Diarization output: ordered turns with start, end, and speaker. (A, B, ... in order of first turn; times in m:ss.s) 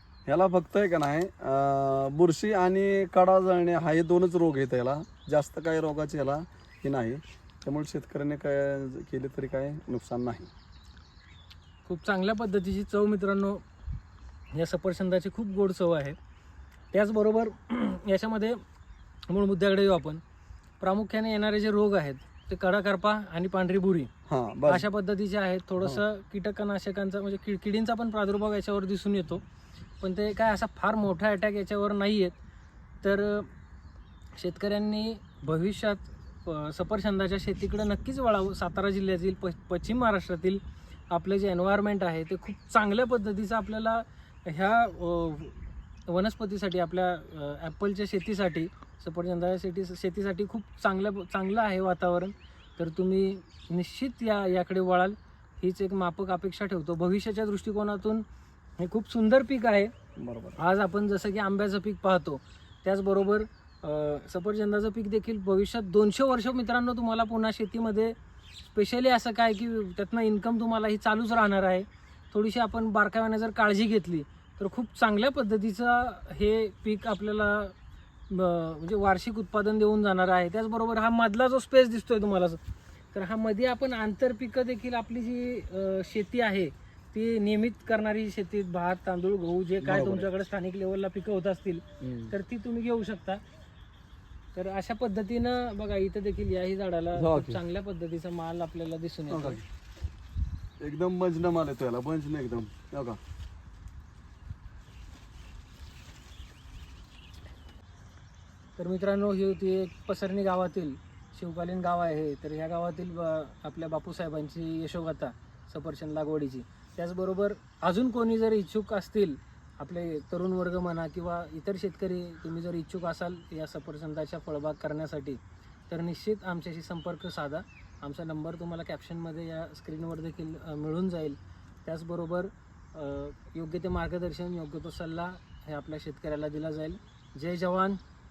0:00.3-0:10.5 A
0:11.8-0:13.6 B
0:14.5-0:16.2 B
0:16.9-0:18.6 B
0:19.3-0:20.2 B
0:20.8-0:24.1 B
0:24.3-0:24.9 A
0:24.7-0:29.4 B
0:30.0-0:32.4 B
0:33.0-0:33.5 B
0:34.4-0:58.2 B
0:58.8-0:59.9 B
1:00.2-1:00.6 A
1:00.6-1:08.2 B
1:08.7-1:17.7 B
1:18.3-1:22.6 B
1:23.1-1:33.4 B
1:29.8-1:30.3 A
1:32.0-1:32.3 A
1:34.5-1:39.6 B
1:37.1-1:37.6 A
1:39.3-1:39.6 A
1:40.8-1:43.2 A
1:48.8-2:18.0 B